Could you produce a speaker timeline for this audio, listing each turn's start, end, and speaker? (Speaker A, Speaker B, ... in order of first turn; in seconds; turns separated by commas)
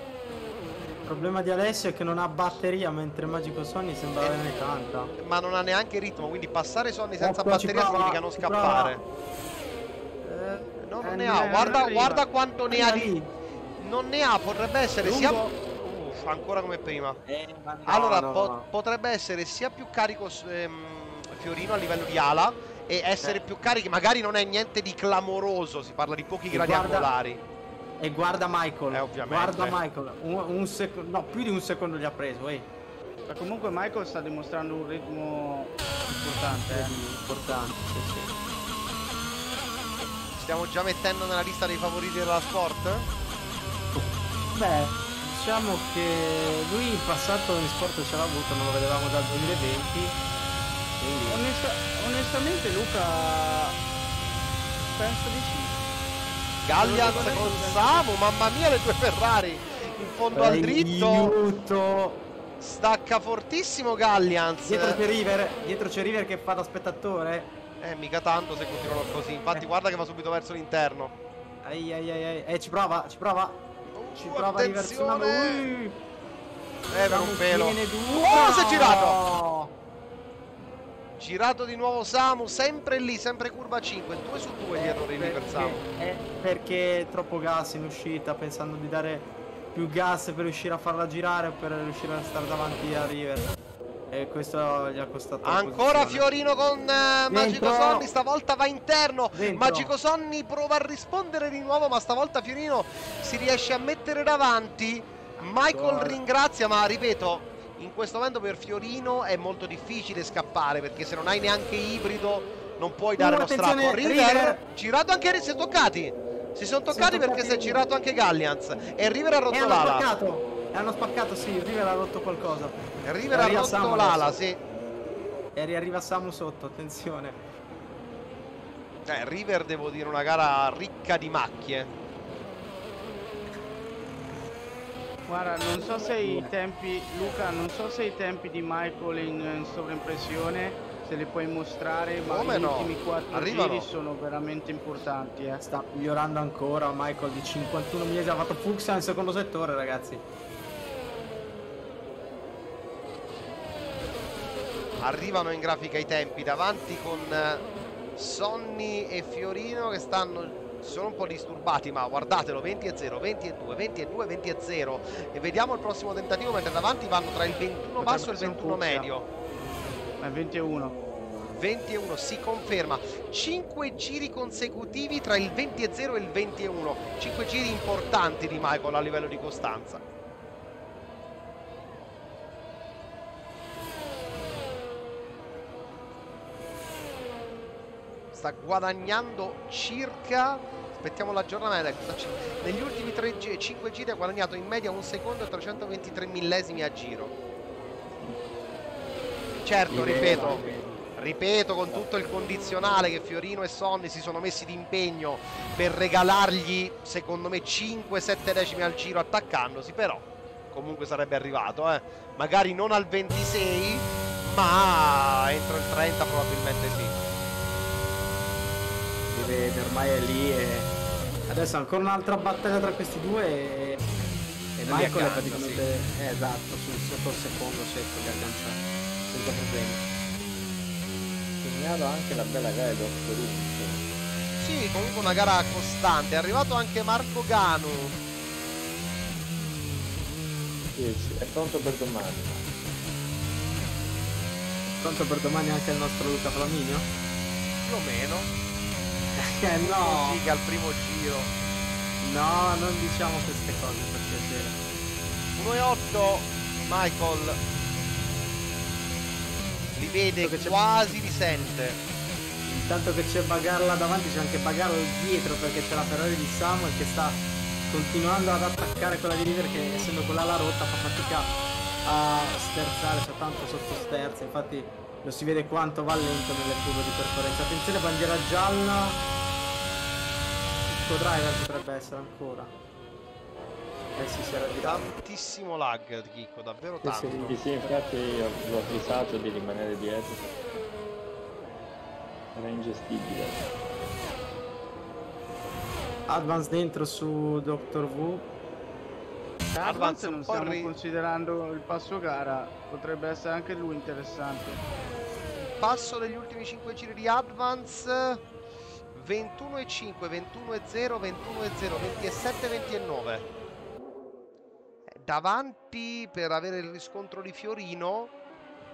Speaker A: 1.0-5.1, Speaker B: 4.2-4.5, Speaker B: 5.2-9.0, Speaker A: 7.2-9.0, Speaker A: 10.2-11.8, Speaker B: 10.8-13.1, Speaker C: 11.3-12.2, Speaker A: 12.7-13.3, Speaker B: 13.8-17.2, Speaker C: 15.0-15.5, Speaker A: 17.2-18.6, Speaker B: 17.9-27.4, Speaker A: 26.5-27.1, Speaker A: 28.0-32.7, Speaker B: 28.9-29.8, Speaker C: 33.3-37.0, Speaker A: 36.7-38.3, Speaker B: 40.4-43.0, Speaker A: 43.9-50.2, Speaker A: 51.0-51.4, Speaker C: 51.3-53.7, Speaker C: 54.9-55.7, Speaker B: 56.6-61.3, Speaker C: 56.8-58.0, Speaker A: 57.0-57.6, Speaker A: 60.3-62.2, Speaker B: 62.6-65.0, Speaker A: 64.6-67.5, Speaker B: 67.8-71.1, Speaker A: 71.6-73.6, Speaker B: 73.9-75.7, Speaker A: 74.1-76.0, Speaker B: 76.9-79.2, Speaker A: 77.0-79.7, Speaker B: 81.2-85.8, Speaker A: 84.7-93.5, Speaker A: 94.1-96.2, Speaker B: 95.4-120.0, Speaker A: 97.3-98.1, Speaker A: 99.3-99.9, Speaker A: 105.7-106.2, Speaker A: 113.2-114.6, Speaker A: 116.9-117.8, Speaker A: 119.5-122.8, Speaker B: 123.0-124.6, Speaker A: 123.3-124.4, Speaker A: 125.5-127.4, Speaker B: 129.1-131.9, Speaker C: 135.3-145.6, Speaker A: 135.7-136.5, Speaker B: 142.2-143.9, Speaker A: 145.6-150.2, Speaker B: 155.0-157.6, Speaker B: 158.2-169.2, Speaker C: 168.0-169.1, Speaker C: 170.2-170.9, Speaker B: 171.6-180.0, Speaker B: 188.3-197.3, Speaker B: 199.6-200.6, Speaker A: 199.9-201.0, Speaker B: 201.2-217.1, Speaker A: 219.3-220.9, Speaker A: 221.5-224.1, Speaker A: 224.8-230.0, Speaker B: 224.8-225.8, Speaker D: 231.6-234.0, Speaker B: 234.6-238.2, Speaker D: 240.9-242.7, Speaker A: 245.0-247.1, Speaker B: 247.8-248.5, Speaker A: 249.4-250.4, Speaker B: 249.8-251.5, Speaker A: 252.2-254.8, Speaker B: 255.6-257.6, Speaker B: 259.9-262.0, Speaker A: 260.4-260.7, Speaker A: 262.6-271.5, Speaker A: 272.0-279.2, Speaker A: 280.9-282.7, Speaker A: 284.1-285.1, Speaker B: 284.8-287.6, Speaker D: 287.0-290.6, Speaker D: 292.5-293.7, Speaker A: 296.3-298.5, Speaker C: 299.7-304.8, Speaker B: 299.8-300.9, Speaker B: 305.8-308.4, Speaker B: 309.1-313.4, Speaker B: 315.1-318.3